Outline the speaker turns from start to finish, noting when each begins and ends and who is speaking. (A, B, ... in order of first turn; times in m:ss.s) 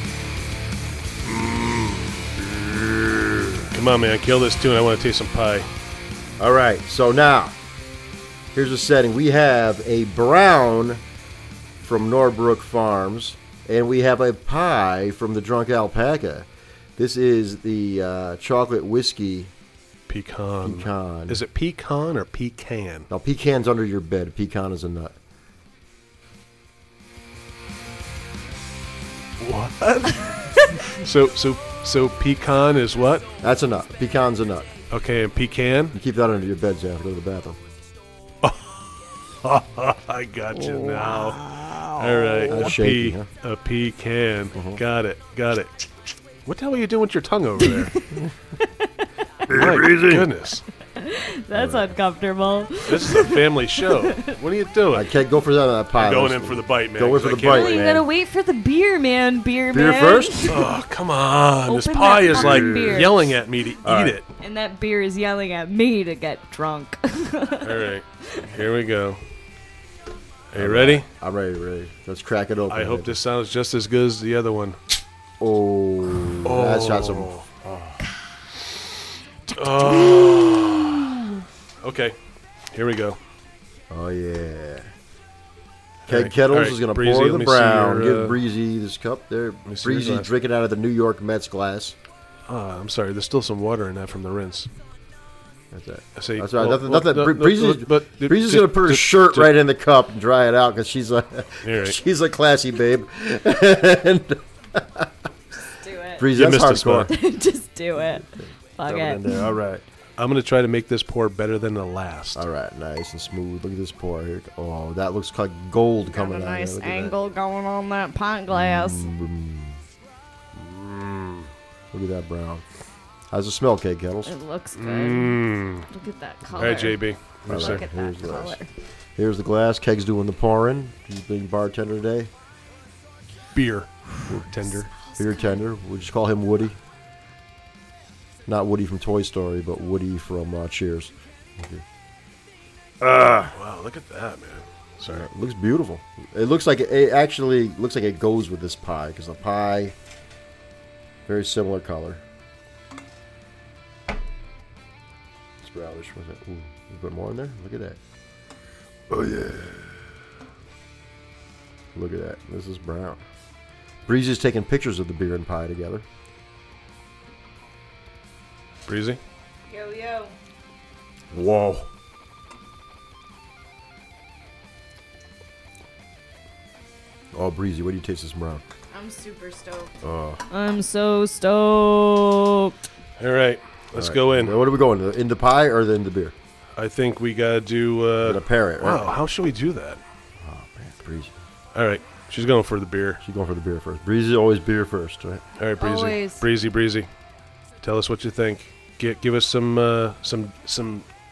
0:01.2-0:03.7 A
0:03.7-0:05.7 B
0:06.4-0:07.5 A
0:08.5-0:11.0 A
0:11.8-0:19.5 A
0:20.1-0:23.1 B
0:20.6-0:21.4 A
0:23.1-0:25.1 A
0:29.4-0:33.2 B
0:33.4-0:34.7 A
0:34.9-0:36.0 B
0:35.9-0:37.6 A
0:38.4-0:38.8 B
0:39.4-0:45.9 B
0:40.5-0:42.5 C
0:42.4-0:43.3 A
0:44.5-0:44.8 A
0:46.4-0:47.9 B
0:47.6-0:49.0 C
0:49.5-0:50.3 A
0:49.5-0:50.6 B
0:51.0-0:54.4 C
0:51.5-0:51.9 A
0:52.8-0:55.1 B
0:54.9-0:58.1 A
0:55.9-0:57.9 B
0:57.4-1:00.7 C
0:59.7-1:00.6 A
1:00.5-1:04.3 B
1:01.7-1:03.2 C
1:02.3-1:03.1 A
1:03.8-1:04.2 A
1:04.4-1:08.4 C
1:07.6-1:09.2 B
1:10.5-1:11.1 B
1:10.5-1:13.2 A
1:12.7-1:14.8 B
1:15.4-1:18.0 A
1:16.4-1:17.4 B
1:19.5-1:21.3 C
1:19.6-1:21.1 B
1:21.8-1:22.2 B
1:22.7-1:23.2 B
1:23.9-1:24.9 A
1:26.1-1:28.4 B
1:26.1-1:32.0 A
1:29.6-1:30.3 B
1:32.5-1:34.7 B
1:35.7-1:45.1 A
1:36.2-1:39.5 B
1:41.6-1:42.0 B
1:45.6-1:46.3 C
1:46.2-1:47.1 A
1:46.3-1:47.1 B
1:47.0-1:49.4 C
1:48.8-1:49.8 A
1:50.2-1:52.4 B
1:52.3-1:57.2 A
1:56.1-1:59.1 C
1:58.5-1:59.8 A
2:00.6-2:02.6 A
2:03.3-2:04.3 A
2:04.2-2:08.7 C
2:04.7-2:05.9 B
2:06.6-2:07.8 B
2:07.5-2:08.6 A
2:09.2-2:12.3 A
2:13.5-2:14.9 B
2:15.0-2:15.6 C
2:15.2-2:16.8 A
2:18.5-2:21.8 A
2:23.0-2:23.5 A
2:23.5-2:25.3 B
2:25.0-2:29.9 A
2:31.2-2:32.2 A
2:35.6-2:38.0 A
2:39.1-2:39.9 A
2:41.9-2:43.2 A
2:44.0-2:46.0 A
2:48.8-2:49.2 B
2:49.7-2:50.3 C
2:51.3-2:51.9 A
2:57.3-2:58.6 A
2:58.9-2:59.9 C
3:00.0-3:00.4 A
3:00.5-3:02.8 C
3:03.2-3:04.6 B
3:03.9-3:06.3 A
3:06.8-3:10.0 B
3:08.2-3:09.1 A
3:10.4-3:11.3 A
3:11.7-3:13.2 B
3:13.2-3:15.4 A
3:15.6-3:17.1 B
3:15.8-3:16.4 C
3:17.8-3:21.0 B